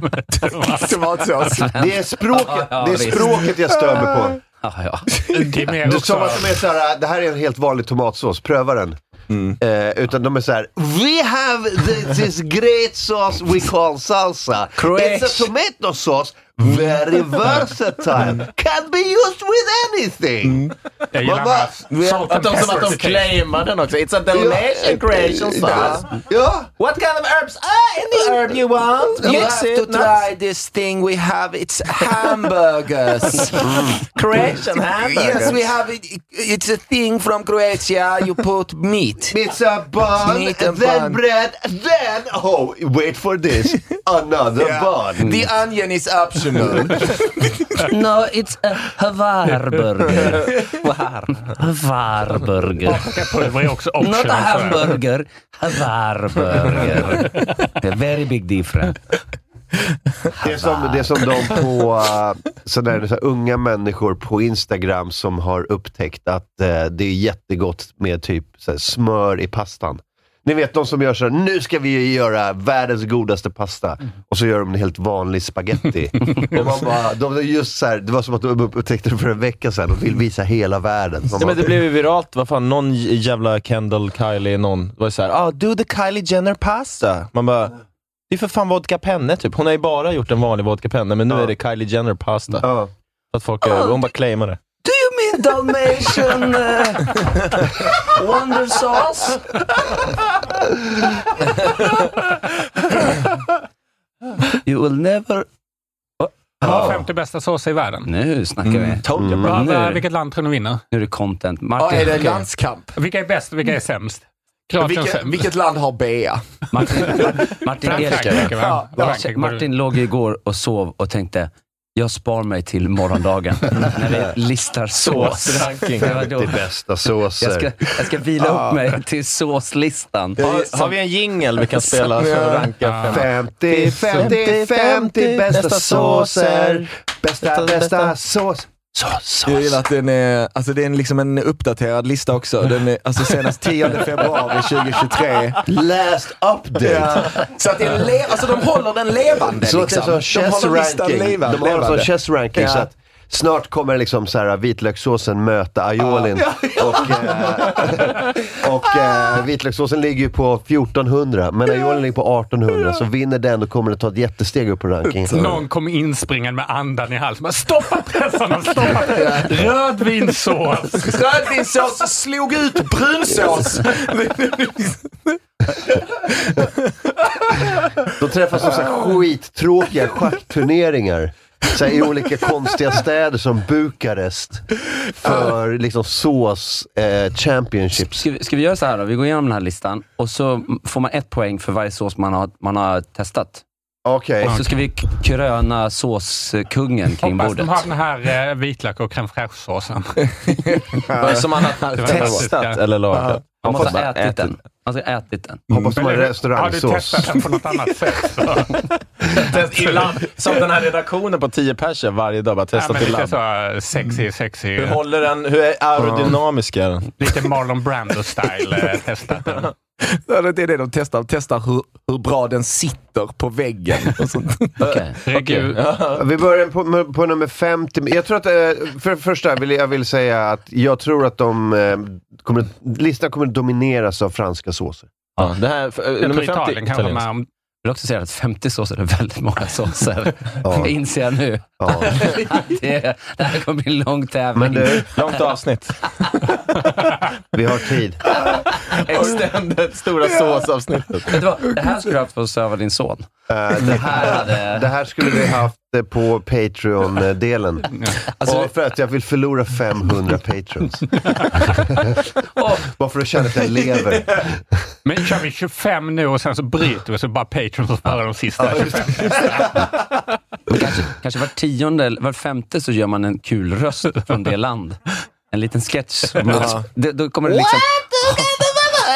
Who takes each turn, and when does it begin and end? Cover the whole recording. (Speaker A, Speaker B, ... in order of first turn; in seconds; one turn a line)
Speaker A: 0.3-1.6
Speaker B: 0.4-1.7
Speaker C: 1.6-3.5
Speaker D: 1.7-4.4
Speaker C: 4.6-5.1
Speaker A: 5.3-6.6
Speaker D: 5.8-9.0
Speaker B: 9.3-9.6
Speaker D: 9.6-21.8
Speaker E: 14.8-15.4
Speaker B: 20.4-20.7
Speaker A: 21.1-23.3
Speaker B: 21.9-23.0
Speaker E: 22.1-26.1
Speaker D: 24.3-26.7
Speaker B: 25.7-25.9
Speaker E: 26.8-30.2
Speaker B: 29.1-33.9
Speaker D: 29.2-29.5
Speaker D: 33.6-34.0
Speaker E: 34.0-35.6
Speaker B: 34.9-39.4
Speaker D: 39.3-45.2
Speaker B: 40.1-41.2
Speaker B: 44.6-47.6
Speaker C: 45.2-45.5
Speaker C: 47.9-50.4
Speaker C: 51.4-53.0
Speaker A: 52.9-55.0
Speaker C: 54.0-59.0
Speaker C: 60.4-61.1
Speaker D: 60.4-81.8
Speaker E: 81.4-87.7
Speaker E: 88.3-92.6
Speaker D: 92.6-92.9
Speaker E: 93.3-94.6
Speaker C: 93.7-93.9
Speaker C: 94.8-99.4
Speaker C: 104.6-105.5
Speaker A: 106.6-108.1
Speaker D: 106.6-107.0
Speaker C: 108.0-110.0
Speaker E: 109.0-109.3
Speaker D: 109.2-109.5
Speaker A: 109.4-110.8
Speaker C: 110.9-112.5
Speaker B: 111.8-112.9
Speaker A: 113.0-115.4
Speaker B: 114.8-116.4
Speaker C: 116.7-126.6
Speaker B: 117.0-117.3
Speaker A: 117.0-119.7
Speaker B: 117.9-119.2
Speaker E: 125.0-126.2
Speaker D: 126.0-127.7
Speaker C: 127.4-130.4
Speaker B: 128.4-128.8
Speaker E: 130.4-136.9
Speaker B: 130.4-130.7
Speaker B: 132.1-132.7
Speaker A: 132.8-133.2
Speaker D: 133.1-138.7
Speaker E: 137.4-138.1
Speaker B: 139.4-145.6
Speaker D: 145.6-147.5
Speaker B: 146.8-152.9
Speaker D: 149.6-165.4
Speaker B: 156.1-158.1
Speaker B: 165.3-165.6
Speaker A: 165.3-171.2
Speaker B: 169.0-169.5
Speaker B: 171.0-175.4
Speaker B: 176.0-177.6
Speaker D: 178.1-188.2
Speaker C: 188.0-193.6
Speaker D: 194.1-194.6
Speaker C: 194.4-197.8
Speaker A: 197.2-200.2
Speaker B: 200.5-201.5
Speaker E: 201.2-204.5
Speaker A: 201.9-202.8
Speaker B: 202.0-202.4
Speaker B: 203.1-203.4
Speaker C: 203.6-205.6
Speaker D: 205.7-207.4
Speaker A: 205.9-208.8
Speaker E: 209.3-213.3
Speaker A: 212.7-215.0
Speaker E: 214.8-217.1
Speaker B: 215.9-216.4
Speaker A: 217.2-219.7
Speaker B: 220.0-224.8
Speaker E: 224.8-226.2
Speaker C: 224.8-225.1
Speaker A: 225.2-225.8
Speaker D: 226.1-235.1
Speaker E: 235.4-237.2
Speaker A: 236.2-237.5
Speaker C: 237.8-245.2
Speaker D: 240.6-240.9
Speaker D: 241.8-242.4
Speaker D: 244.5-245.1
Speaker E: 245.1-246.0
Speaker D: 247.5-248.5
Speaker E: 248.9-251.3
Speaker C: 251.3-254.9
Speaker D: 253.5-262.2
Speaker C: 258.4-258.7
Speaker C: 262.6-262.9
Speaker D: 262.8-264.6
Speaker A: 265.0-269.7
Speaker D: 268.6-269.7
Speaker C: 270.7-275.0
Speaker C: 275.5-278.5
Speaker B: 276.5-276.9